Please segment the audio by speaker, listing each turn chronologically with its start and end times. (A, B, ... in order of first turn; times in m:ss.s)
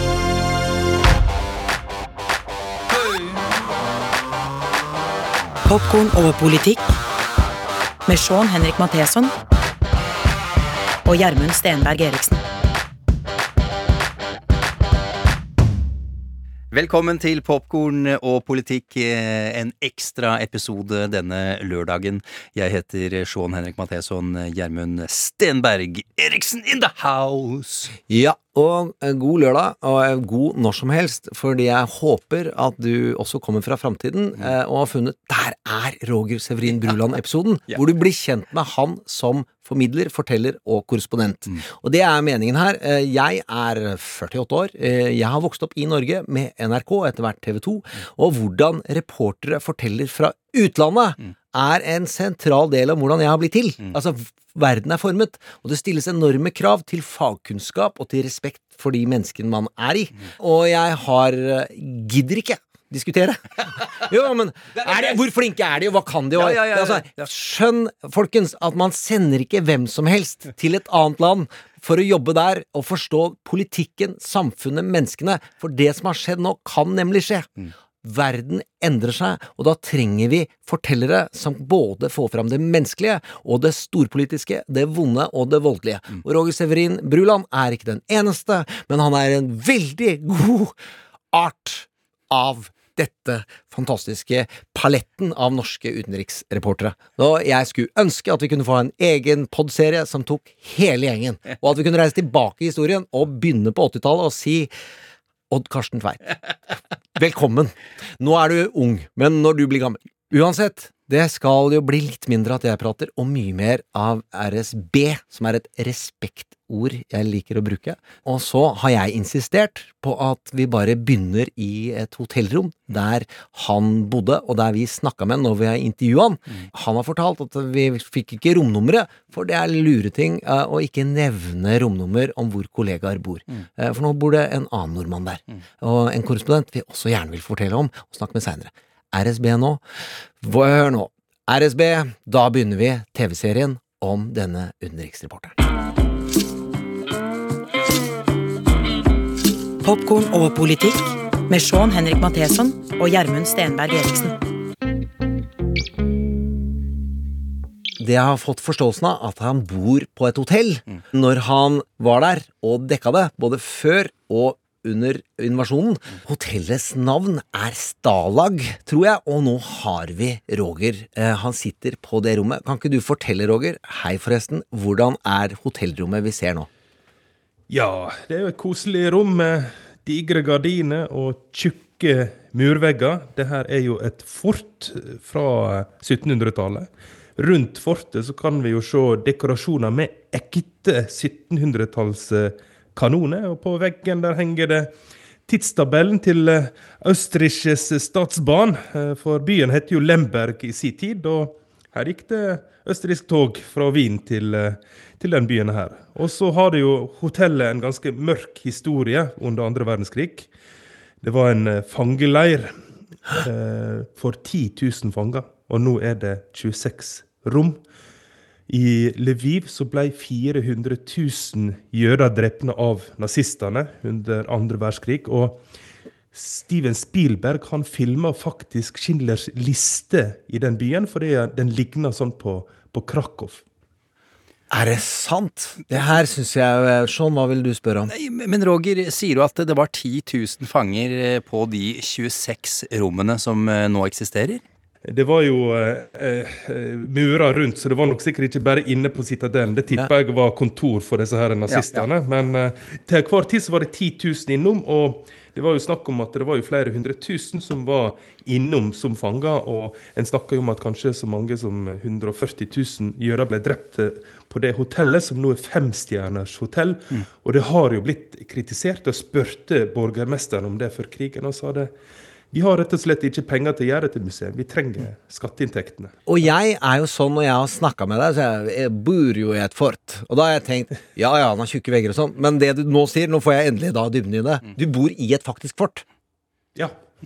0:05.6-0:06.8 A
0:08.0-0:09.3 A
0:11.0-0:12.4 A
0:16.7-0:27.9 B
0:28.1-1:17.5 C
1:06.4-1:07.3 B
1:18.0-1:30.8 C
1:31.3-1:44.7 C
1:45.5-2:19.8 C
2:20.4-2:25.6 C
2:29.8-2:34.4 A
2:38.0-2:56.7 C
2:57.7-3:14.9 D
3:15.5-3:30.5 D
3:31.2-3:32.7 D
3:33.3-3:37.8 D
3:38.7-3:45.6 D
3:46.3-3:53.6 D
3:54.7-3:58.1 C
3:58.1-4:04.6 B
4:05.0-4:31.9 D
4:11.7-4:12.0 B
4:32.5-4:36.1 D
4:36.3-4:46.0 C